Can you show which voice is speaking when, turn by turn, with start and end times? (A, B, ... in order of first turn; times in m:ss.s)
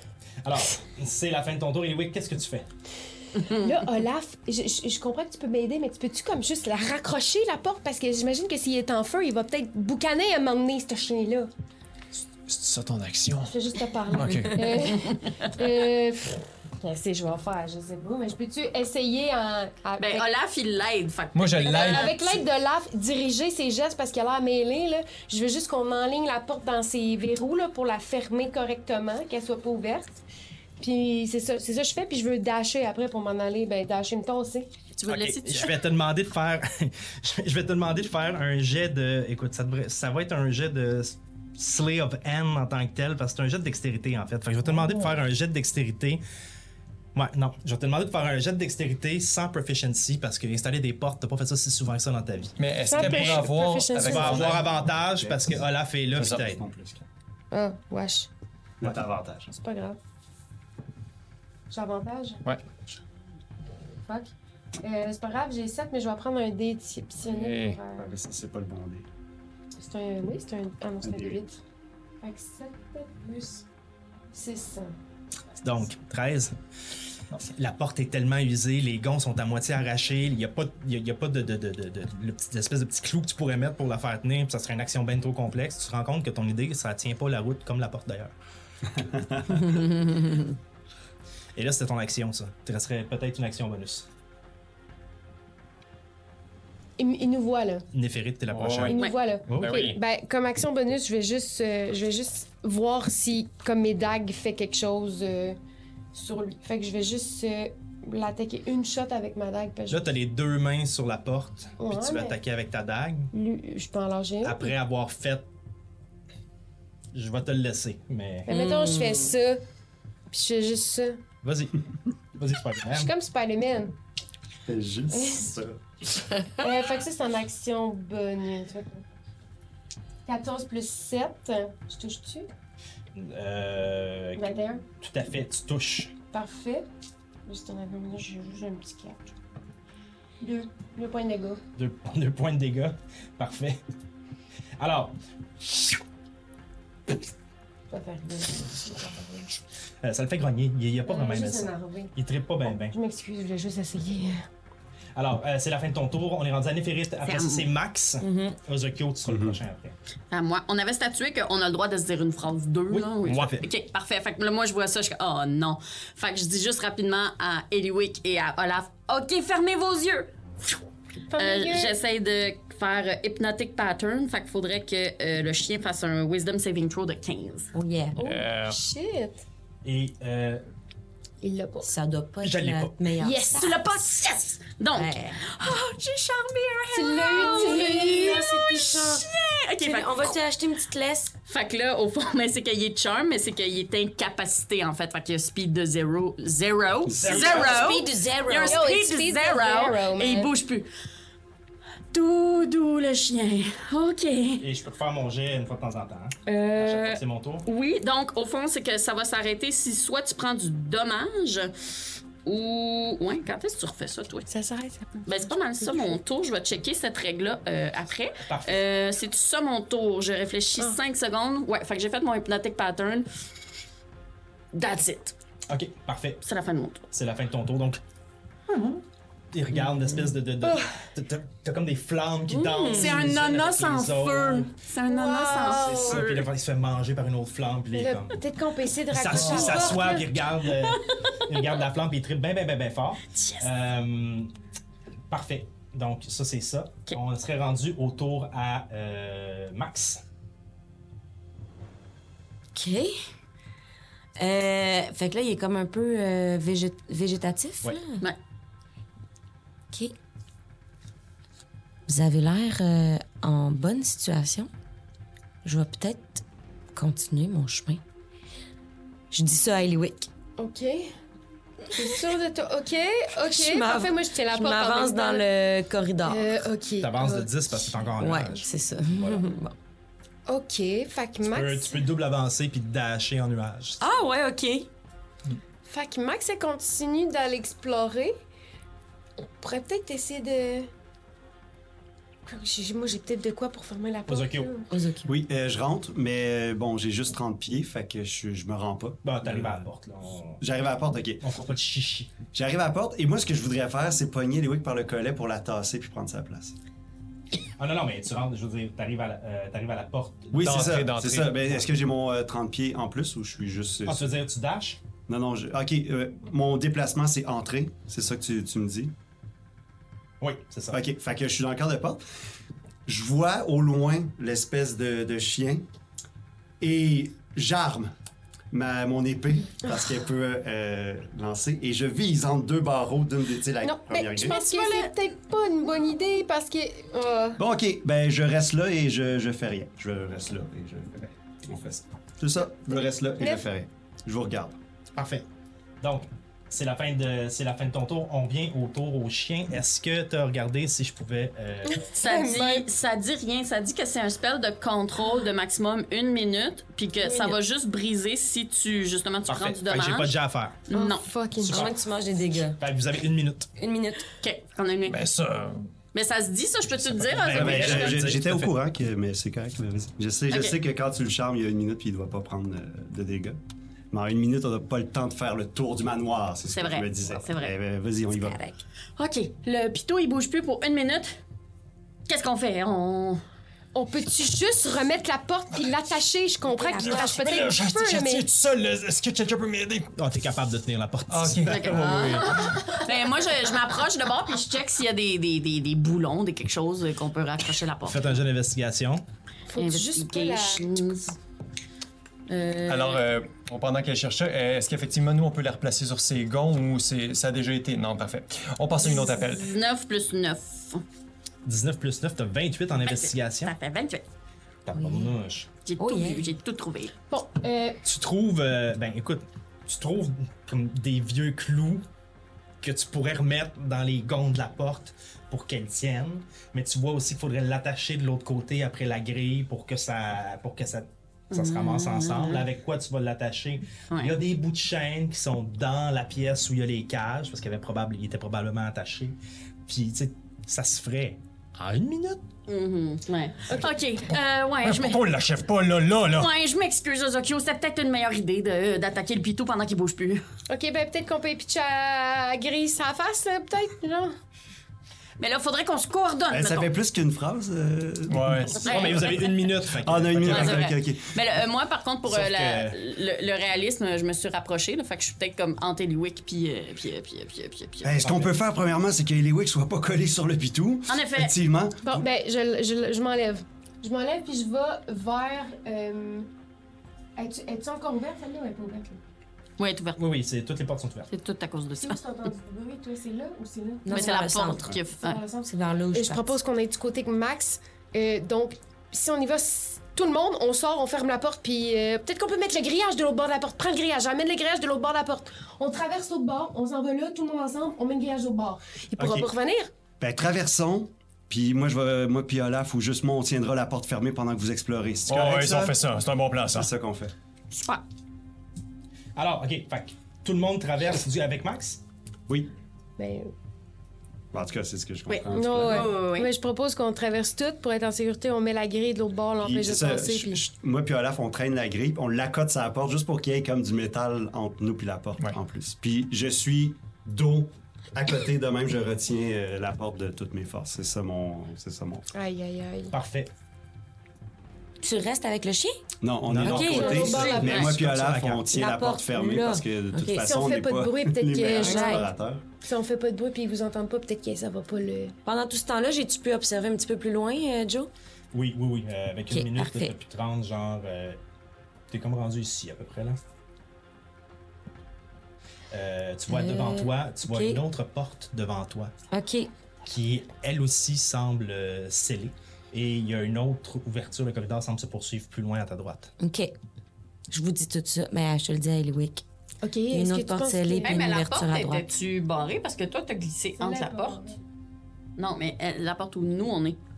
0:00.4-0:02.7 A
0:03.4-0:03.7 B
0:03.4-0:11.5 C
0:12.5-0:13.5 D
0:13.5-0:20.3 C
0:14.1-0:14.9 D
0:15.0-0:15.3 B
0:20.0-0:22.1 B
0:21.3-0:22.4 D
0:21.7-0:30.2 C
0:30.8-0:34.7 C
0:34.9-0:35.8 B
0:35.1-0:46.2 A
0:47.1-0:53.5 A
0:52.6-0:54.7 D
0:52.8-0:54.6 C
0:54.0-0:56.6 A
0:54.9-0:57.1 E
0:56.2-0:56.4 D
0:57.5-0:58.3 C
0:58.8-0:59.5 E
0:59.5-1:00.0 C
1:01.7-1:02.4 C
1:04.0-1:08.1 C
1:07.2-1:07.8 D
1:08.0-1:09.1 E
1:09.8-1:11.6 C
1:11.0-1:11.4 E
1:12.2-1:13.6 C
1:14.3-1:14.9 C
1:15.6-1:16.5 A
1:17.5-1:28.3 A
1:28.9-1:29.8 E
1:31.6-1:34.1 A
1:37.0-1:37.8 C
1:37.9-1:39.0 A
1:38.5-1:39.0 D
1:38.9-1:45.6 C
1:39.5-1:39.8 A
1:39.6-1:40.0 D
1:46.1-1:50.1 C
1:49.9-1:53.3 A
1:51.8-1:52.4 C
1:53.3-1:54.7 C
1:54.4-1:55.5 A
1:57.1-1:58.5 A
1:58.5-1:59.6 C
1:58.5-1:59.3 F
2:00.3-2:01.2 C
2:01.4-2:01.8 A
2:02.3-2:03.1 A
2:02.9-2:03.9 C
2:04.6-2:05.8 E
2:05.1-2:05.5 C
2:06.6-2:09.0 C
2:10.2-2:12.5 C
2:13.1-2:16.1 A
2:14.4-2:14.8 C
2:16.3-2:16.9 C
2:17.4-2:19.3 C
2:20.4-2:21.6 C
2:21.8-2:23.8 A
2:24.8-2:26.0 A
2:27.9-2:29.6 C
2:30.0-2:33.0 A
2:31.0-2:32.1 C
2:32.8-2:34.5 C
2:35.2-2:40.0 A
2:37.2-2:37.7 B
2:38.2-2:38.6 F
2:39.2-2:39.6 E
2:40.3-2:50.8 B
2:42.9-2:43.6 A
2:51.3-2:51.9 C
2:51.3-2:57.7 B
2:57.7-2:58.2 F
2:58.2-2:59.4 C
2:58.2-2:58.8 D
2:59.8-3:00.6 A
3:01.4-3:01.9 C
3:01.8-3:03.7 F
3:02.4-3:03.1 A
3:03.2-3:03.7 C
3:03.5-3:10.4 B
3:04.9-3:05.4 F
3:06.9-3:08.5 C
3:07.3-3:09.2 F
3:09.8-3:11.3 F
3:11.5-3:20.9 B
3:17.1-3:17.8 E
3:17.2-3:17.9 A
3:17.5-3:18.8 F
3:18.6-3:20.5 C
3:22.1-3:24.6 B
3:24.6-3:27.7 A
3:26.5-3:27.0 C
3:26.7-3:31.7 B
3:32.4-3:34.5 B
3:34.5-3:36.2 C
3:35.2-3:43.3 B
3:38.4-3:38.8 A
3:44.7-3:45.3 B
3:45.7-3:46.4 A
3:46.4-3:47.0 B
3:47.1-3:48.0 A
3:49.5-3:54.7 A
3:52.8-3:53.1 F
3:52.9-3:56.5 B
3:55.1-3:56.2 C
3:55.7-3:58.4 A
3:57.9-4:00.3 C
3:59.1-4:04.5 A
4:00.8-4:01.3 B
4:03.3-4:03.7 B
4:05.3-4:10.2 A
4:12.7-4:13.1 F
4:14.4-4:18.2 F
4:22.1-4:24.7 F
4:25.6-4:28.0 F
4:29.3-4:30.3 F
4:30.6-4:31.1 C
4:31.9-4:35.5 C
4:33.4-4:36.6 F
4:36.2-4:37.5 C
4:37.0-4:39.5 A
4:38.2-4:39.7 F
4:40.5-4:42.0 C
4:41.4-4:44.0 A
4:44.0-4:44.9 F
4:45.8-4:48.4 C
4:49.6-4:50.9 C
4:52.4-4:54.9 C
4:54.3-4:54.7 A
4:54.9-4:55.3 F
4:55.2-4:59.8 E
4:59.2-5:00.6 A
5:00.6-5:01.4 E
5:01.4-5:02.3 A
5:02.5-5:06.8 E
5:07.8-5:10.8 A
5:10.5-5:14.3 E
5:10.6-5:11.9 D
5:14.0-5:15.0 A
5:15.3-5:19.1 E
5:20.4-5:21.0 A
5:20.9-5:22.2 E
5:23.0-5:25.9 E
5:26.8-5:28.1 E
5:28.7-5:34.6 E
5:33.8-5:37.6 C
5:34.4-5:35.1 B
5:37.6-5:44.8 E
5:43.4-5:43.6 C
5:45.1-5:45.4 A
5:46.0-5:52.0 A
5:51.9-5:52.9 C
5:52.1-6:00.3 B
5:57.2-5:57.6 C
5:59.5-6:00.8 A
6:00.9-6:01.3 B
6:00.9-6:01.9 C
6:01.6-6:02.8 F
6:01.7-6:01.9 A
6:02.8-6:03.7 A
6:03.8-6:04.3 F
6:04.4-6:05.2 B
6:05.0-6:05.9 D
6:06.1-6:08.3 B
6:07.3-6:08.7 A
6:07.5-6:13.6 E
6:10.5-6:10.8 B
6:14.1-6:18.6 E
6:16.7-6:17.7 B
6:18.3-6:18.8 F
6:19.2-6:21.4 B
6:22.3-6:23.4 B
6:23.9-6:28.4 C
6:26.8-6:27.5 F
6:27.0-6:30.1 D
6:30.1-6:32.1 A
6:31.3-6:33.0 D
6:31.6-6:38.4 B
6:38.0-6:39.2 A
6:39.7-6:41.2 C
6:39.8-6:41.3 B
6:42.5-6:43.2 B
6:42.8-6:49.7 D
6:49.0-6:51.0 B
6:51.6-6:53.7 A
6:53.0-6:54.2 B
6:54.8-6:55.7 A
6:54.9-6:55.3 F
6:55.8-6:57.1 B
6:56.0-6:56.5 F
6:57.3-6:58.0 C
6:58.0-7:02.0 A
7:02.8-7:22.4 A
7:11.5-7:12.6 B
7:14.1-7:14.4 B
7:22.7-7:25.2 B
7:24.8-7:26.5 D
7:26.4-7:30.4 B
7:30.7-7:34.3 C
7:35.4-7:36.9 B
7:36.5-7:39.1 E
7:38.3-7:38.9 D
7:38.8-7:39.6 B
7:38.8-7:41.0 A
7:39.9-7:41.4 E
7:40.4-7:48.4 B
7:42.2-7:43.0 A
7:48.0-7:52.2 E
7:48.2-7:48.5 A
7:51.1-7:51.5 B
7:52.0-7:56.5 C
7:57.4-7:59.2 C
7:59.8-8:00.2 B
8:00.2-8:01.3 A
8:01.3-8:02.2 B
8:02.0-8:19.9 C
8:04.0-8:05.0 F
8:04.1-8:05.4 B
8:05.6-8:06.6 F
8:19.2-8:19.5 E
8:20.2-8:26.0 E
8:25.3-8:26.9 D
8:26.7-8:27.3 E
8:27.7-8:28.0 B
8:29.4-8:32.0 A
8:33.2-8:33.5 C
8:34.5-8:36.1 E
8:35.3-8:36.5 B
8:35.5-8:40.6 C
8:39.6-8:52.3 E
8:52.3-8:53.1 C
8:53.1-8:53.5 A
8:55.0-8:56.0 F
8:56.2-9:02.6 E
8:56.4-8:58.7 A
8:56.6-8:57.7 F
8:56.8-8:57.8 C
8:58.7-9:00.5 F
9:00.4-9:02.3 C
9:01.8-9:02.3 F
9:02.8-9:05.3 C
9:05.4-9:08.1 F
9:08.5-9:11.4 A
9:09.5-9:10.1 F
9:12.1-9:13.4 A
9:15.9-9:19.1 A
9:16.5-9:17.8 F
9:19.3-9:19.7 F
9:20.0-9:26.3 A
9:26.4-9:26.7 F
9:27.5-9:29.4 F
9:29.8-9:31.3 C
9:30.1-9:32.1 F
9:31.0-9:34.4 B
9:33.8-9:34.6 C
9:35.4-9:37.0 B